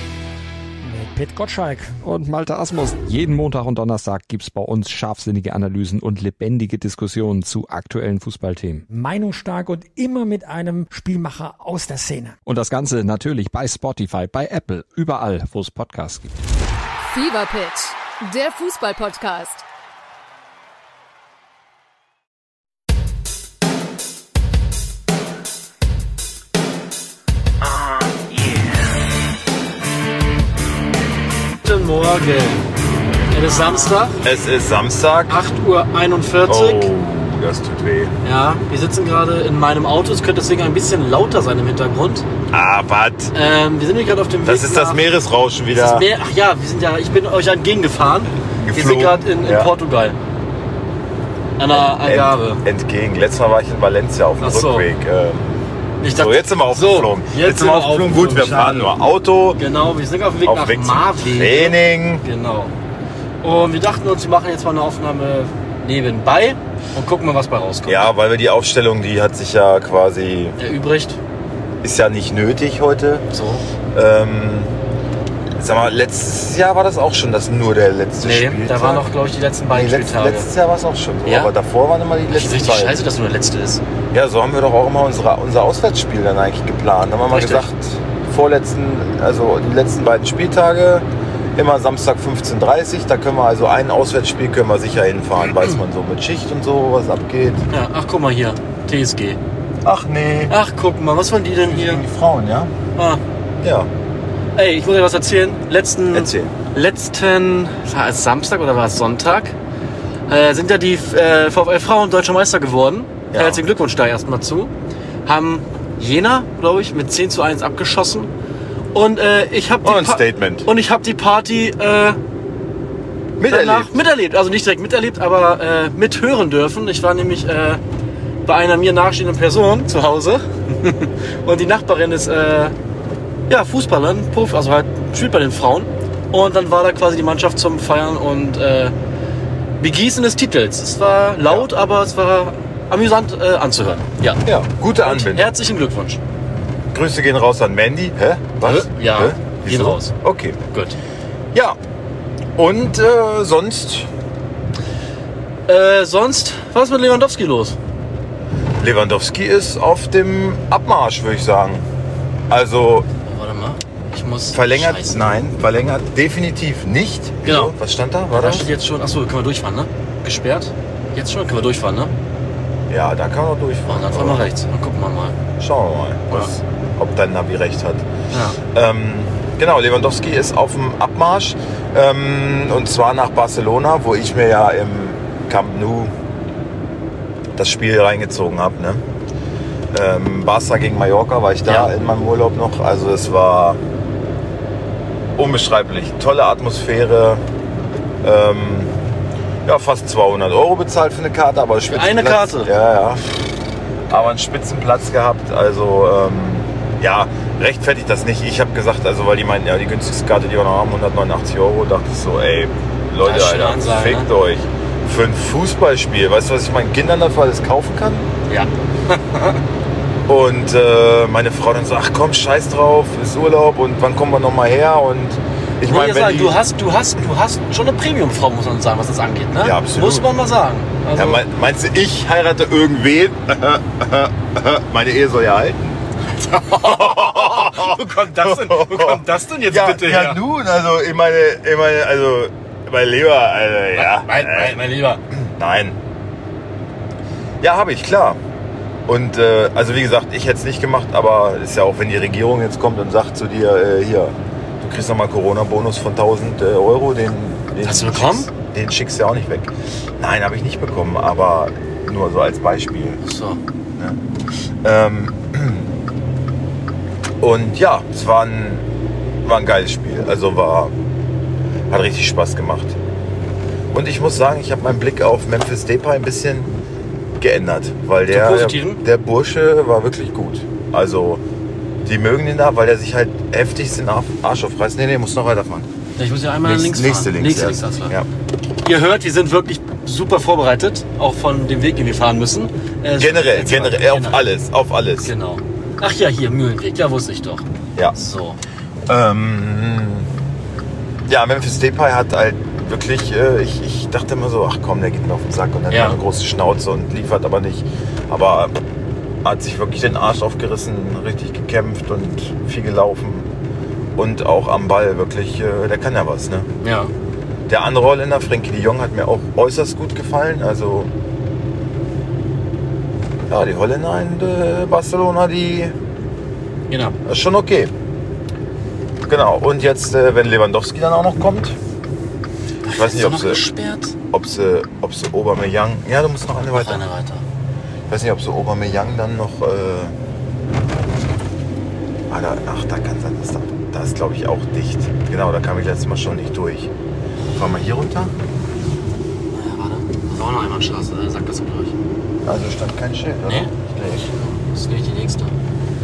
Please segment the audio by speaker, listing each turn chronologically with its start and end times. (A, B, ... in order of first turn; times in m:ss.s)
0:00.8-0:01.9 A
0:02.0-0:08.8 B
0:08.9-0:12.4 A
0:12.4-0:16.3 B
0:17.1-0:19.6 C
0:27.6-0:28.4 D
0:31.6-0:32.6 E
0:33.3-0:34.2 E
0:34.2-0:35.4 D
0:35.3-0:36.9 E
0:36.4-0:38.2 D
0:38.2-0:42.3 E
0:42.5-0:43.3 D
0:43.3-0:45.0 E
0:44.4-0:46.1 D
0:45.7-0:50.2 E
0:48.6-0:49.7 D
0:51.6-0:52.6 E
0:51.7-0:55.6 D
0:54.4-0:54.9 E
0:56.0-0:58.9 E
0:56.1-0:59.6 D
0:59.6-1:02.7 E
1:00.4-1:02.2 D
1:03.4-1:08.1 E
1:07.8-1:10.6 D
1:10.6-1:11.2 E
1:11.8-1:13.2 D
1:13.3-1:13.6 E
1:13.9-1:14.7 D
1:15.6-1:19.1 D
1:18.2-1:20.5 E
1:19.7-1:23.1 D
1:21.2-1:21.5 E
1:22.3-1:23.8 E
1:24.1-1:37.6 D
1:27.3-1:27.7 E
1:37.7-1:39.4 E
1:39.8-1:40.5 D
1:40.5-1:42.0 E
1:41.7-1:42.7 D
1:43.0-1:43.2 E
1:43.6-1:43.9 D
1:44.6-1:49.6 E
1:46.1-1:46.5 D
1:50.3-1:54.7 E
1:53.3-1:53.6 D
1:55.2-1:58.3 E
1:58.9-2:02.2 E
1:59.8-2:00.7 D
2:03.4-2:03.9 D
2:03.5-2:07.8 E
2:08.4-2:12.7 E
2:13.5-2:18.9 E
2:19.8-2:24.4 E
2:24.4-2:25.5 D
2:25.0-2:26.2 E
2:26.9-2:30.6 D
2:28.6-2:30.1 E
2:30.7-2:31.0 E
2:32.6-2:34.1 D
2:35.7-2:37.8 E
2:38.8-2:41.8 D
2:42.5-2:43.1 D
2:43.2-2:45.4 E
2:44.5-2:48.7 D
2:47.4-2:47.7 E
2:48.3-2:52.1 E
2:52.9-2:54.5 D
2:53.8-2:55.4 E
2:55.6-2:58.0 D
2:58.3-2:58.6 E
2:58.7-3:06.1 D
3:07.5-3:09.0 D
3:09.9-3:13.8 D
3:15.4-3:17.4 D
3:18.2-3:18.9 D
3:19.6-3:23.2 D
3:21.9-3:22.7 E
3:24.1-3:38.3 D
3:33.2-3:34.3 E
3:38.5-3:39.6 E
3:40.3-3:46.6 D
3:45.8-3:51.4 E
3:49.6-3:50.3 D
3:51.1-4:06.0 D
3:56.4-4:00.4 E
4:03.9-4:05.2 E
4:07.6-4:08.4 D
4:09.1-4:23.2 D
4:17.8-4:18.5 E
4:23.2-4:23.6 E
4:24.8-4:25.9 D
4:27.4-4:28.8 D
4:29.4-4:30.9 D
4:31.9-4:33.0 D
4:33.9-4:36.7 D
4:37.4-4:41.4 D
4:38.3-4:39.0 E
4:42.0-4:45.9 D
4:46.2-4:48.1 E
4:46.6-4:48.3 D
4:48.8-4:54.4 E
4:53.2-4:55.3 D
4:55.2-4:58.6 E
4:59.1-5:00.3 D
5:01.3-5:08.8 D
5:05.9-5:06.2 E
5:09.4-5:13.5 D
5:14.2-5:16.7 D
5:16.8-5:17.1 E
5:17.7-5:21.1 D
5:23.5-5:25.9 D
5:26.9-5:27.2 E
5:27.2-5:27.9 D
5:29.3-5:31.8 D
5:32.8-5:34.1 E
5:32.9-5:33.6 D
5:34.3-5:37.0 D
5:36.7-5:37.4 E
5:38.1-5:40.1 D
5:42.3-5:46.9 D
5:47.5-5:48.3 D
5:49.5-5:51.9 E
5:52.4-5:54.3 D
5:53.4-5:55.5 E